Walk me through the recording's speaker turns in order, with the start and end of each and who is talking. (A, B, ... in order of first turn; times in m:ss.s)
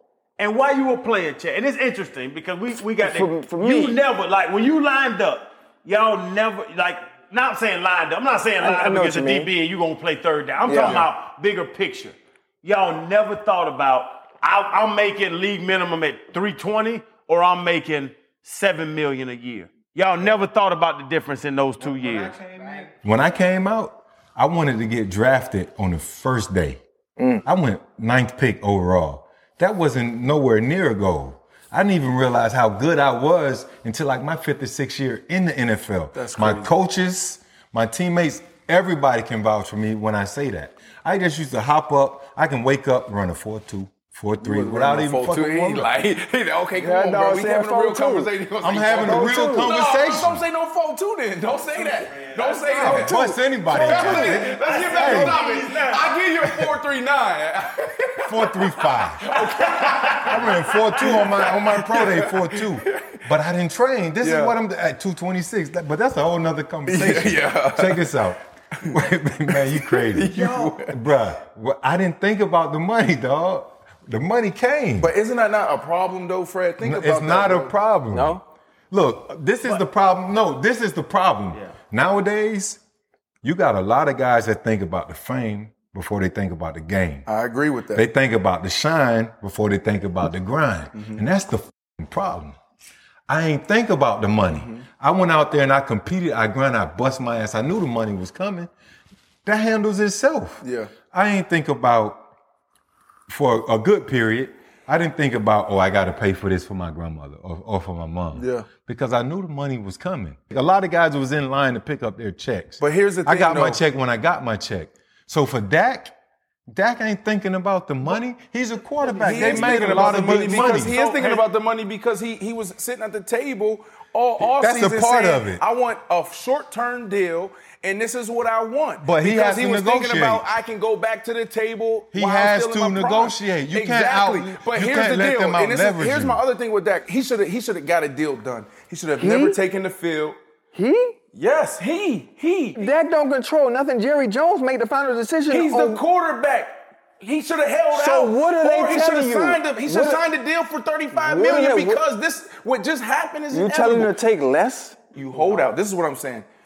0:00.4-0:22.4 A
0:03.0-0:04.0 B
0:08.6-0:09.5 B
0:10.7-0:11.0 C
0:10.7-0:11.0 B
0:21.8-0:22.9 B
0:23.0-0:26.8 D
0:27.2-0:27.4 B
0:27.4-0:45.9 D
0:36.1-0:36.7 C
0:44.4-1:00.5 C
0:46.8-0:48.3 B
0:48.6-0:50.4 D
0:48.9-0:49.7 B
0:51.7-0:53.0 A
0:52.8-0:55.4 D
0:52.9-0:53.4 B
0:53.9-0:56.1 A
0:58.2-0:59.4 D
0:59.7-1:01.0 A
1:00.2-1:15.1 D
1:01.0-1:03.2 C
1:04.2-1:04.5 C
1:06.9-1:08.1 C
1:09.5-1:11.0 C
1:15.0-1:17.7 C
1:16.8-1:22.8 D
1:18.1-1:18.4 B
1:23.4-1:27.2 D
1:27.2-1:28.1 C
1:27.9-1:32.6 D
1:30.9-1:31.2 C
1:33.3-1:38.7 D
1:34.5-1:34.8 C
1:39.4-1:42.3 D
1:40.6-1:40.9 C
1:43.3-1:56.1 D
1:48.3-1:48.7 C
1:52.8-1:53.8 C
1:56.7-2:01.0 D
1:59.0-2:01.4 A
1:59.2-2:20.4 C
2:04.4-2:05.6 D
2:09.0-2:10.5 D
2:12.1-2:16.4 D
2:19.2-2:19.6 B
2:20.7-2:21.2 B
2:21.3-2:22.8 C
2:22.8-2:26.0 B
2:25.5-2:34.1 C
2:27.9-2:30.2 B
2:31.1-2:32.0 B
2:33.5-2:35.0 B
2:35.1-2:36.4 C